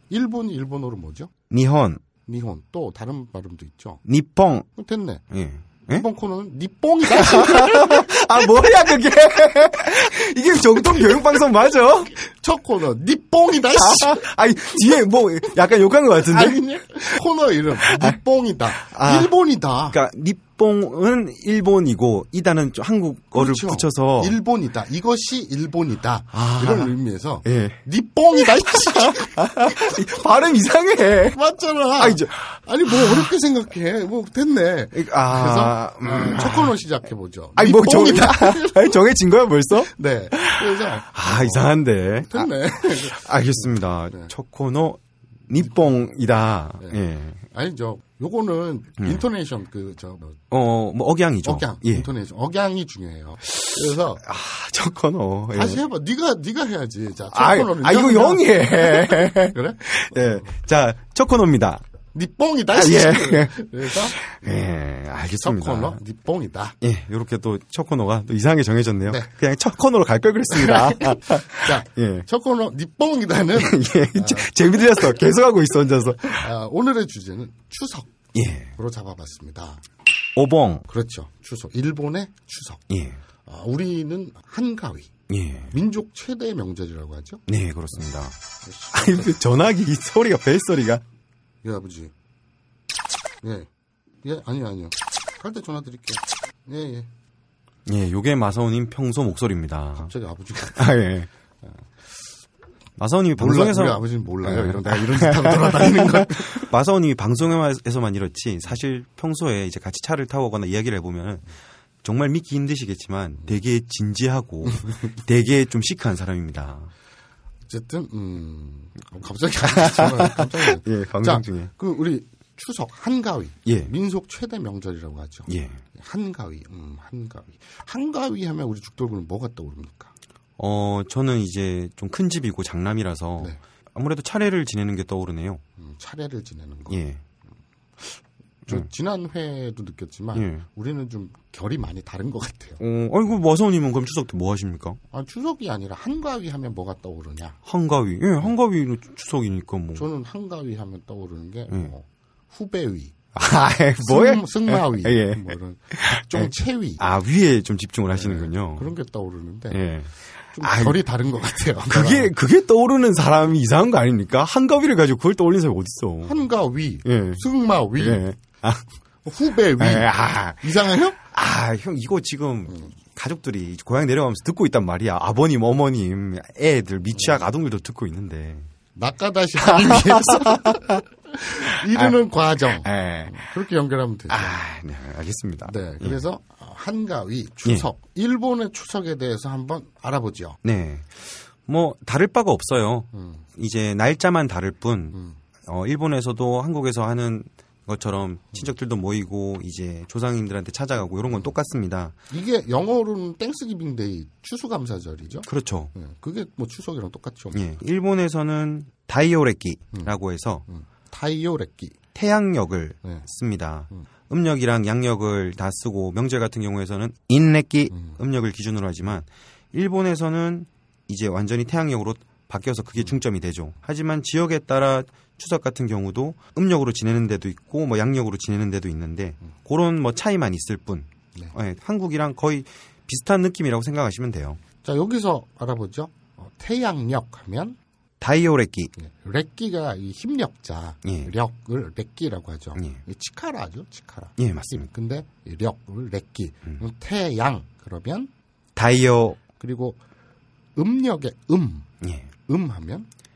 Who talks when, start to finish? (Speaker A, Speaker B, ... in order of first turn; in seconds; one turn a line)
Speaker A: 0.1-1.3
Speaker B: 1.5-2.0
Speaker A: 2.3-4.0
Speaker B: 4.1-4.7
Speaker A: 4.8-5.2
Speaker B: 5.3-6.1
Speaker A: 5.9-8.2
Speaker B: 7.1-12.2
Speaker A: 12.2-14.2
Speaker B: 13.7-16.6
Speaker A: 16.2-20.0
Speaker B: 17.8-18.2
Speaker B: 18.8-19.3
Speaker B: 19.9-24.4
Speaker A: 23.3-30.2
Speaker B: 26.3-27.8
Speaker B: 28.4-31.4
Speaker A: 31.3-39.0
Speaker B: 32.0-33.3
Speaker B: 34.9-36.8
Speaker B: 37.6-47.4
Speaker A: 39.8-44.3
Speaker A: 46.8-50.4
Speaker B: 50.5-52.1
Speaker A: 51.4-54.2
Speaker B: 53.5-55.8
Speaker A: 55.5-60.5
Speaker B: 57.3-61.8
Speaker A: 62.1-64.2
Speaker B: 62.7-66.0
Speaker A: 65.4-66.8
Speaker B: 66.8-72.3
Speaker A: 70.5-74.5
Speaker B: 73.5-76.5
Speaker A: 76.2-79.8
Speaker B: 78.3-78.7
Speaker B: 80.3-80.8
Speaker A: 80.9-82.8
Speaker B: 82.9-83.2
Speaker A: 83.5-85.1
Speaker B: 85.3-85.7
Speaker A: 85.7-87.5
Speaker B: 87.5-88.4
Speaker A: 88.6-89.4
Speaker B: 88.9-91.0
Speaker A: 91.6-92.1
Speaker A: 93.4-93.7
Speaker A: 94.2-97.1
Speaker B: 97.9-100.1
Speaker A: 100.0-101.0
Speaker B: 100.8-101.3
Speaker B: 103.0-111.5
Speaker A: 103.4-106.7
Speaker B: 112.0-116.9
Speaker A: 117.7-130.1
Speaker B: 119.7-121.7
Speaker B: 123.7-123.9
Speaker B: 125.5-125.8
Speaker B: 130.6-135.6
Speaker A: 135.8-137.0
Speaker B: 136.9-137.2
Speaker A: 138.0-142.8
Speaker B: 140.3-140.7
Speaker B: 142.8-145.0
Speaker A: 145.1-147.6
Speaker B: 147.7-150.1
Speaker A: 149.9-153.2
Speaker B: 153.3-158.9
Speaker A: 154.0-157.0
Speaker A: 158.1-159.8
Speaker B: 159.7-161.0
Speaker A: 160.5-162.3
Speaker B: 161.9-166.4
Speaker A: 166.2-168.3
Speaker B: 167.1-167.4
Speaker B: 168.0-168.8
Speaker A: 169.2-171.2
Speaker B: 169.8-178.7
Speaker A: 177.2-177.4
Speaker A: 178.9-184.6
Speaker B: 179.6-181.0
Speaker B: 181.9-182.2
Speaker B: 182.7-183.5
Speaker B: 184.3-186.2
Speaker A: 185.7-190.6
Speaker B: 190.6-202.2
Speaker A: 193.1-193.4
Speaker A: 195.1-195.4
Speaker A: 202.3-207.6
Speaker B: 205.4-205.9
Speaker B: 207.5-210.7
Speaker A: 210.7-212.0
Speaker B: 212.2-234.6
Speaker A: 217.9-218.2
Speaker A: 234.8-237.8
Speaker B: 238.2-238.9
Speaker A: 238.9-248.3
Speaker B: 241.0-241.3
Speaker B: 244.4-244.9
Speaker B: 248.8-249.4
Speaker A: 249.6-250.0
Speaker A: 250.8-251.9
Speaker B: 252.0-252.3
Speaker A: 252.5-253.1